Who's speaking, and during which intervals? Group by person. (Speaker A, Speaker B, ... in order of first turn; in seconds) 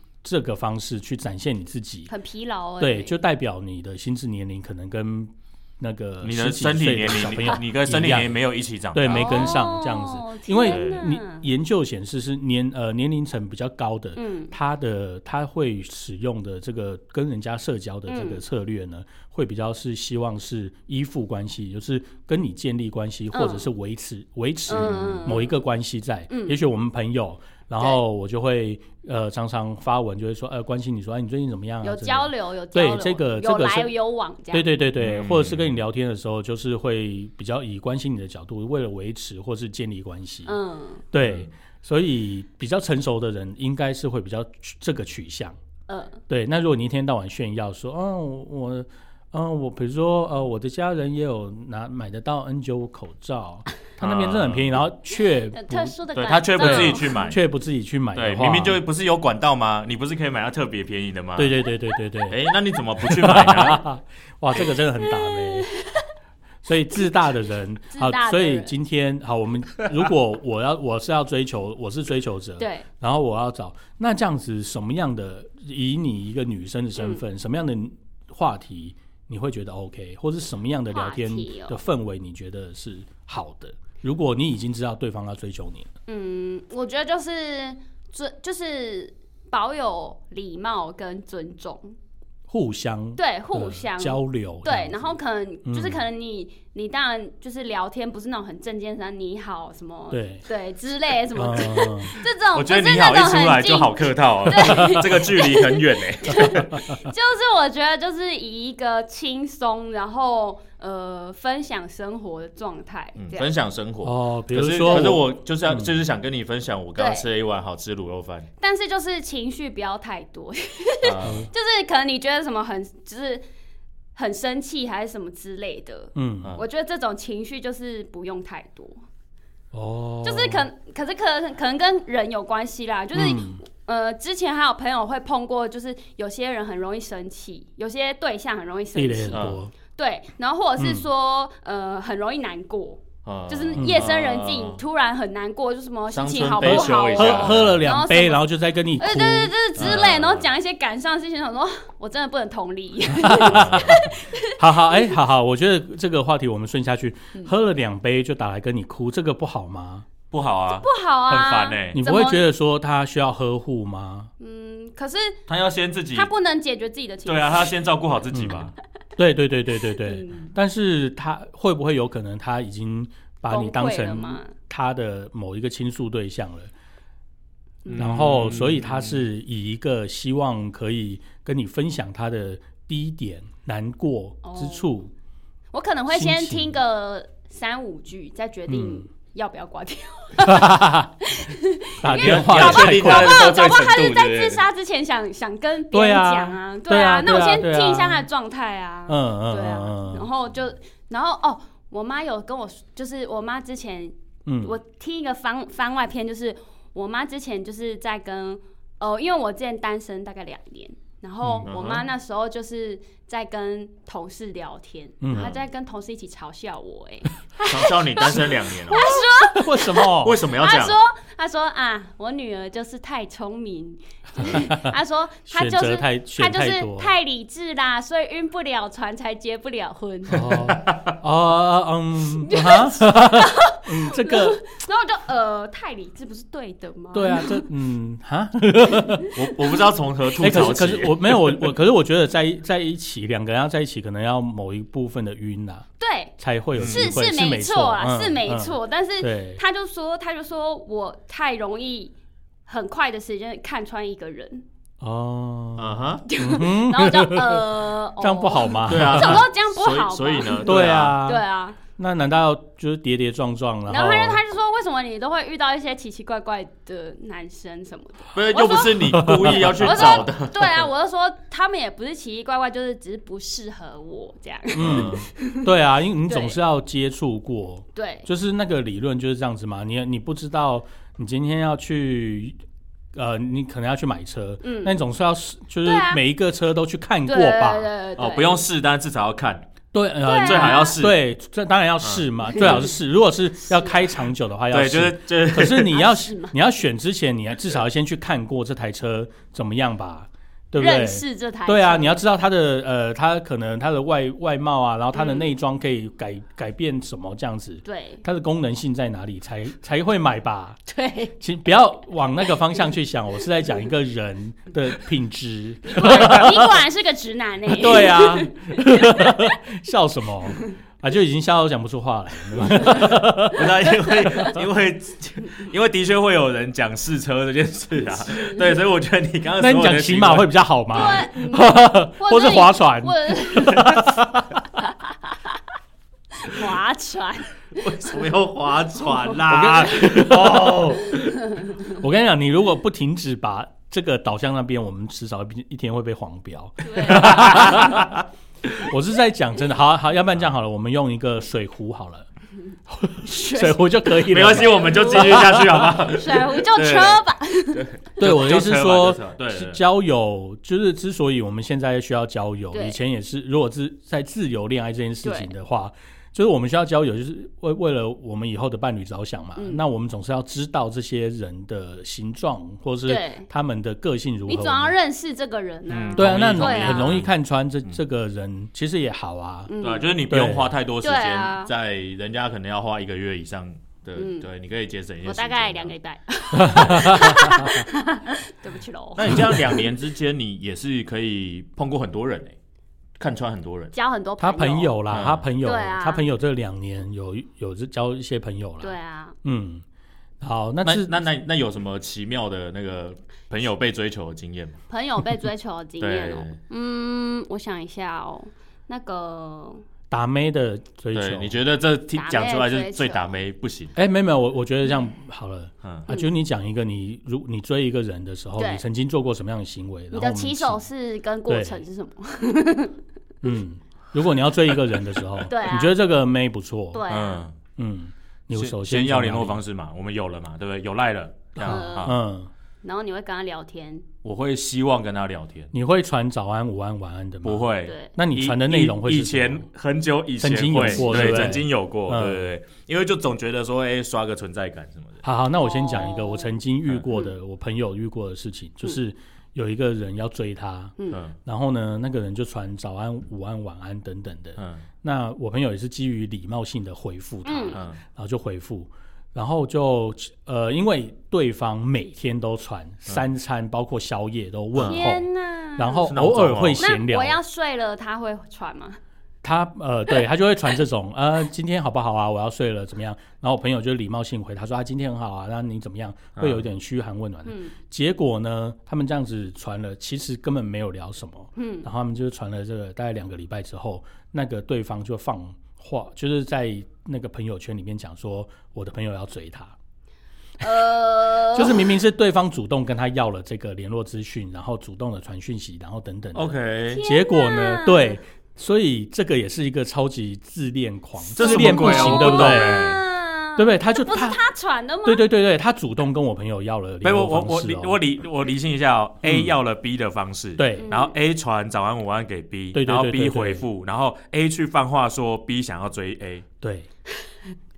Speaker A: 0.2-2.1, 2.8-8.4, 8.9-33.9, 34.5-40.5, 41.1-45.6, 46.3-56.0, 56.6-58.8, 61.4-62.4, 63.0-65.7, 66.6-85.9, 92.5-95.1, 95.7-96.0, 100.1-100.4, 101.3-102.2, 114.0-115.9, 121.2-121.5, 126.1-126.5, 129.7-130.7, 133.1-133.6, 138.9-139.7, 140.8-141.1, 143.8-144.0, 146.6-149.9, 153.1-160.1, 161.9-164.3, 168.3-168.6, 169.2-176.7, 177.9-185.1, 186.1-186.8, 188.7-189.1, 190.4-191.1, 192.0-193.5, 195.9-198.2, 199.1-200.3, 204.4-204.8, 211.4-211.7, 215.2-215.5, 218.9-220.4, 224.4-224.9, 225.5-227.1, 230.3-234.6, 237.1-239.3, 240.4-245.8, 246.4-249.6, 255.0-259.4, 260.6-261.4, 261.9-264.4, 269.1-270.2, 274.7-282.6, 283.1-287.9, 289.9-310.8, 311.4-316.7, 317.7-323.9, 329.6-334.7, 339.4-341.1, 341.9-348.2, 348.8-352.3, 352.9-355.8, 358.2-374.9, 376.2-379.7, 380.3-380.7, 386.5-387.7, 394.4-399.8, 400.4-401.2, 410.1-411.6, 413.9-420.8, 421.5-421.8, 423.4-427.0, 427.8-429.6, 431.6-432.5, 435.7-439.7, 440.4-442.5, 445.2-467.4, 469.4-489.7, 491.5-502.9, 503.6-504.4, 505.0-508.0, 509.2-509.5, 510.6-510.9, 512.7-513.6, 516.6-516.9
Speaker B: 2.1-3.1, 9.1-11.4, 14.2-14.5, 18.1-18.4, 23.3-23.7, 24.7-25.6, 26.3-26.6, 31.8-34.8, 40.5-41.0, 45.9-46.2, 55.5-57.3, 65.0-66.1, 67.9-68.7, 72.6-72.8, 77.0-77.2, 80.9-81.8, 86.1-91.9, 93.2-113.5, 117.0-117.3, 118.6-123.4, 124.2-129.0, 130.2-148.4, 149.0-155.1, 160.7-162.5, 164.4-165.4, 166.1-167.7, 169.9-170.5, 173.5-174.5, 177.8-178.1, 184.4-184.9, 185.7-230.5, 232.4-237.6, 246.0-252.1, 252.7-254.6, 256.3-261.8, 263.9-275.7, 276.3-276.6, 277.9-278.3, 284.6-285.0, 285.8-286.2, 287.3-288.6, 290.2-291.0, 292.6-292.9, 293.7-294.0, 295.9-296.5, 300.8-302.2, 305.1-305.5, 307.8-308.2, 310.9-311.3, 315.9-319.5, 324.2-324.5, 328.2-328.7, 330.9-334.2, 334.8-335.6, 336.4-337.5, 346.8-347.7, 353.2-357.9, 362.7-363.0, 365.2-365.5, 369.6-369.8, 373.1-373.5, 374.5-377.2, 379.7-380.1, 381.0-381.7, 384.1-384.5, 385.2-389.9, 393.9-395.0, 395.6-396.2, 398.8-399.4, 404.9-409.8, 412.1-413.3, 418.6-418.8, 420.1-422.9, 425.5-425.9, 426.9-427.4, 431.6-432.2, 432.8-434.1, 437.9-438.1, 441.0-441.5, 445.6-446.5, 451.0-451.2, 457.4-457.8, 464.9-466.1, 466.8-469.0, 477.4-477.7, 481.6-481.9, 490.6-491.9, 496.9-498.2, 501.4-505.3, 510.8-511.1
Speaker C: 6.2-9.7, 10.7-11.1, 24.8-25.3, 35.0-35.8, 54.0-54.8, 56.1-57.4, 58.1-61.5, 62.3-63.9, 102.5-106.9, 113.2-118.5, 121.0-121.5, 139.3-139.6, 143.2-144.8, 146.1-147.8, 149.8-150.5, 153.4-154.0, 160.3-162.0, 165.5-166.3, 167.2-168.7, 177.8-179.3, 192.1-194.6, 211.6-212.1, 215.3-215.6, 217.7-219.1, 220.1-221.0, 230.7-231.1, 239.3-241.7, 246.8-247.1, 255.8-256.2, 258.9-261.2, 268.3-270.9, 274.8-275.3, 288.2-289.7, 290.4-291.2, 292.0-292.9, 294.7-295.9, 323.5-330.5, 337.7-341.4, 347.1-348.2, 354.3-359.8, 375.9-377.3, 379.8-385.9, 389.1-392.6, 393.2-393.9, 395.1-395.4, 400.8-404.8, 406.0-406.6, 411.1-413.9, 415.8-416.1, 427.1-427.6, 428.5-432.1, 434.2-435.7, 437.4-445.2, 454.6-454.8, 457.7-458.0, 464.7-465.0, 466.1-466.9, 476.4-476.6, 496.3-497.0, 501.4-503.0, 507.0-516.5